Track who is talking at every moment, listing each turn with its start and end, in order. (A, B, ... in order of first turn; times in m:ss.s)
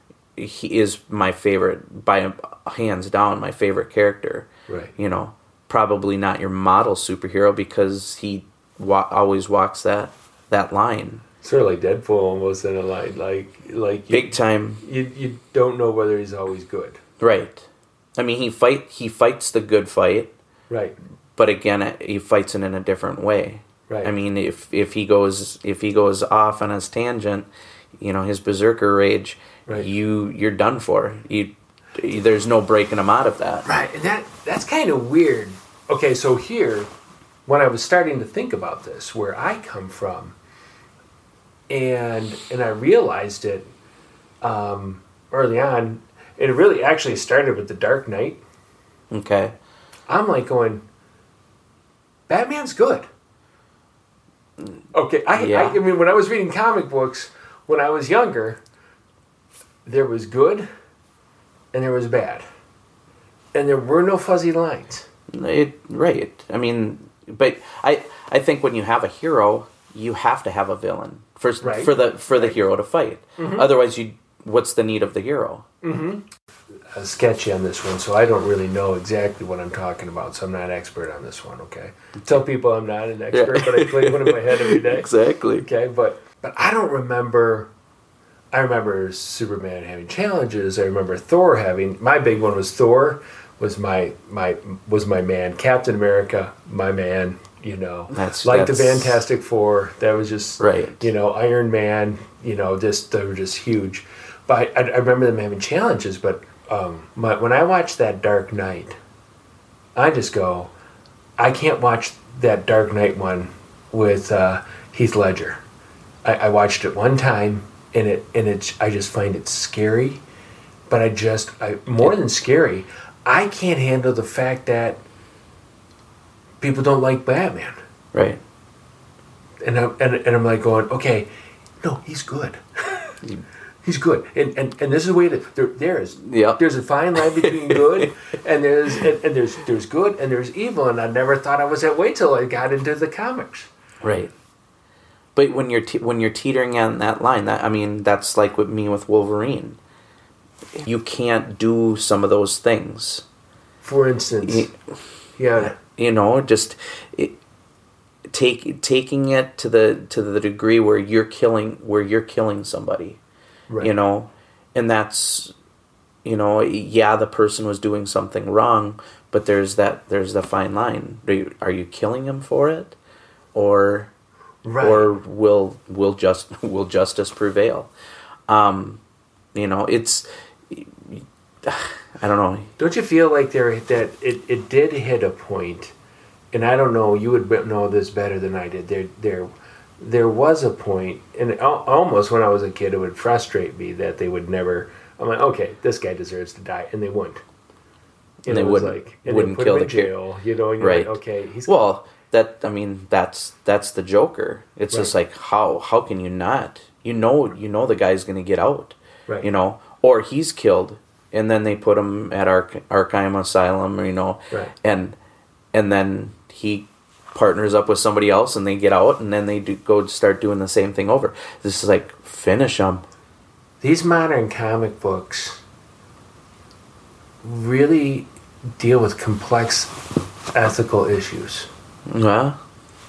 0:00.4-0:11.2 A
0:04.7-0:04.9 B
0:11.4-0:17.0 B
0:14.1-0:14.8 A
0:17.2-0:20.3 A
0:20.7-0:21.0 B
0:21.4-0:27.5 A
0:28.0-0:33.7 A
0:33.6-0:36.9 B
0:37.4-0:40.4 B
0:41.7-0:43.6 B
0:44.4-0:48.4 B
0:49.1-0:49.5 A
0:50.1-0:50.8 B
0:52.3-0:53.0 B
0:54.9-0:58.6 B
0:55.3-0:55.8 A
0:59.8-1:00.7 B
1:01.7-1:02.4 B
1:03.5-1:05.0 B
1:05.3-1:15.6 A
1:11.6-1:12.5 B
1:13.4-1:13.7 B
1:15.8-1:16.3 B
1:16.9-1:25.1 B
1:23.3-1:25.6 A
1:25.6-1:27.7 B
1:28.5-1:49.0 B
1:38.1-1:39.2 A
1:40.6-1:41.1 A
1:50.0-1:50.7 B
1:51.4-1:55.6 B
1:56.2-2:00.2 B
2:00.9-2:05.0 B
2:06.6-2:07.8 B
2:08.1-2:08.4 A
2:09.6-2:11.3 B
2:11.8-2:13.2 B
2:13.8-2:23.7 B
2:16.2-2:16.6 A
2:17.1-2:18.1 A
2:24.0-2:24.3 A
2:25.4-2:29.8 A
2:30.8-2:33.2 A
2:33.8-2:34.7 B
2:34.4-2:34.7 A
2:35.4-2:35.7 B
2:35.6-2:37.4 A
2:38.3-2:43.2 A
2:43.8-2:45.5 A
2:46.2-2:53.0 A
2:53.5-2:54.1 A
2:54.6-2:55.1 B
2:54.8-2:57.9 A
2:58.5-2:59.0 A
2:59.5-3:02.7 A
3:02.8-3:05.9 B
3:06.5-3:17.4 B
3:18.5-3:20.1 A
3:18.5-3:21.8 B
3:20.8-3:35.2 A
3:35.7-3:43.0 A
3:43.8-3:45.6 B
3:47.4-3:50.0 B
3:50.5-3:51.7 B
3:52.1-3:52.6 A